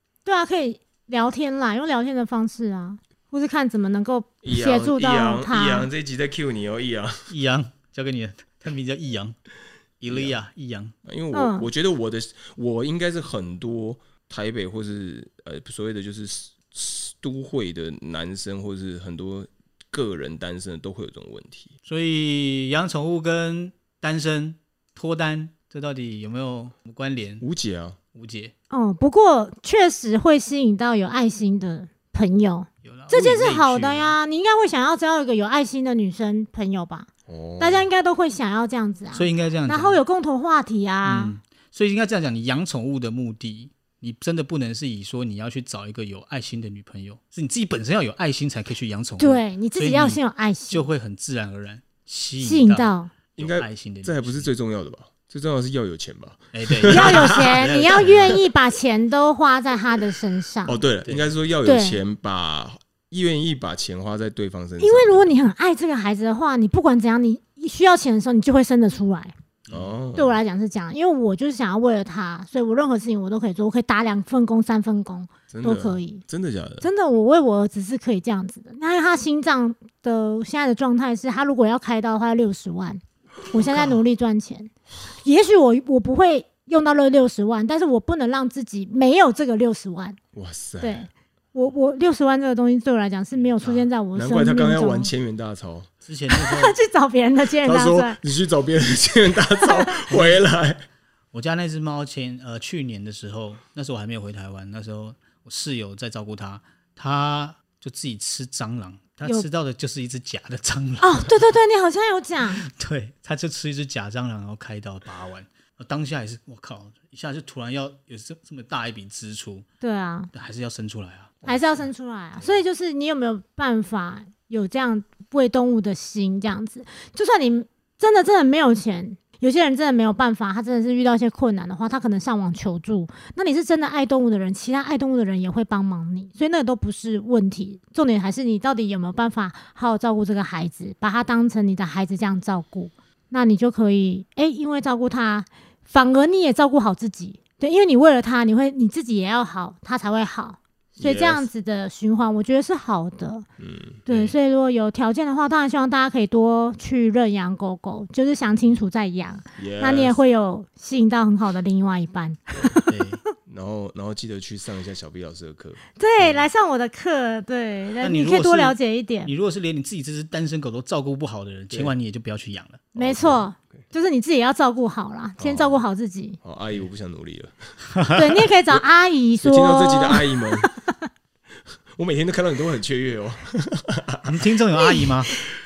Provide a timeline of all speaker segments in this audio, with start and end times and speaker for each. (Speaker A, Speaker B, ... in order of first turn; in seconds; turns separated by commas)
Speaker A: 0.2-5.9, Speaker B: 4.4-7.3, Speaker C: 7.3-9.3, Speaker C: 10.0-10.9, Speaker B: 10.1-10.4, Speaker B: 11.0-21.7, Speaker A: 11.3-11.7, Speaker C: 21.9-27.4, Speaker B: 27.4-28.0, Speaker C: 28.1-28.5, Speaker A: 28.7-37.1, Speaker C: 32.8-34.2, Speaker B: 37.3-37.9, Speaker A: 37.6-41.3, Speaker C: 39.1-40.0, Speaker C: 41.0-54.5, Speaker A: 49.2-50.9, Speaker A: 52.4-53.1, Speaker B: 53.4-57.6, Speaker C: 56.5-58.4, Speaker A: 56.9-60.8, Speaker B: 60.6-65.3, Speaker C: 61.0-61.3, Speaker A: 61.6-62.0, Speaker A: 64.8-69.3, Speaker B: 69.7-70.4, Speaker A: 70.2-76.2, Speaker B: 75.5-76.9, Speaker A: 76.8-84.7, Speaker A: 85.2-90.2, Speaker B: 90.3-91.0, Speaker A: 90.8-95.1, Speaker C: 93.6-93.8, Speaker B: 94.1-95.9, Speaker C: 96.0-96.8, Speaker A: 96.3-98.2, Speaker B: 97.6-100.9, Speaker A: 99.6-100.0, Speaker C: 100.1-100.4, Speaker C: 101.3-111.4, Speaker A: 111.0-112.6, Speaker C: 112.5-119.7, Speaker A: 119.8-120.3, Speaker C: 120.3-121.6, Speaker A: 121.5-153.4, Speaker B: 151.0-151.5, Speaker B: 153.6-154.0, Speaker A: 154.1-163.3, Speaker C: 154.1-154.3, Speaker B: 159.6-160.2, Speaker B: 162.5-162.8, Speaker C: 162.9-163.2, Speaker B: 163.4-166.4, Speaker A: 166.0-169.3, Speaker C: 168.0-172.9, Speaker B: 172.9-173.8, Speaker A: 172.9-176.4, Speaker B: 175.4-175.8, Speaker B: 176.4-177.7, Speaker A: 178.1-181.1, Speaker B: 179.4-180.7, Speaker B: 181.9-184.4, Speaker C: 184.2-185.3, Speaker A: 184.8-185.5